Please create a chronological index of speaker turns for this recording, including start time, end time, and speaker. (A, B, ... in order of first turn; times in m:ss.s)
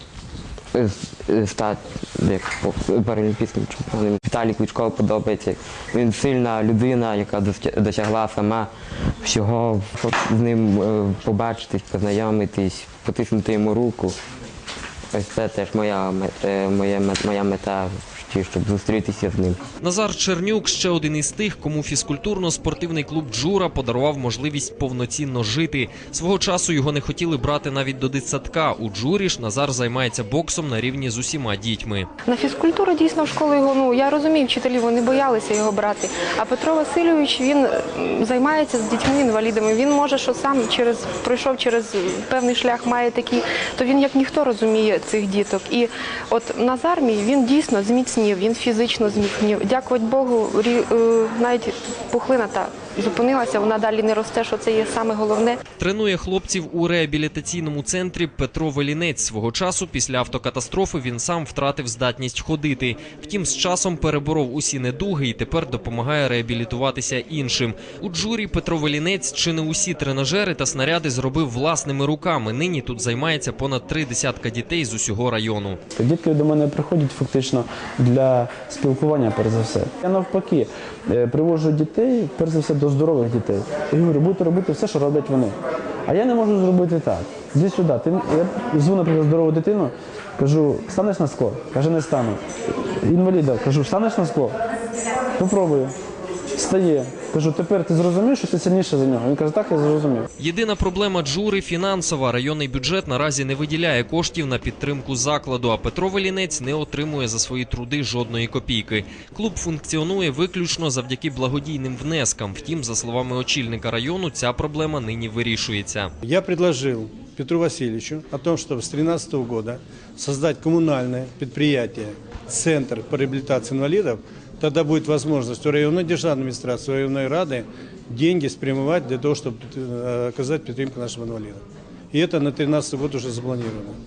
0:00.7-0:08.7 A
0:09.2-0:14.1 A
0:15.1-0:19.6 A
0:19.8-0:32.1 B
0:32.2-0:55.6 C
0:55.8-1:15.8 B
1:16.0-1:32.4 D
1:33.0-1:34.6 D
1:35.4-1:36.0 D
1:36.5-1:40.3 D
1:40.4-1:56.1 B
1:56.2-2:14.0 E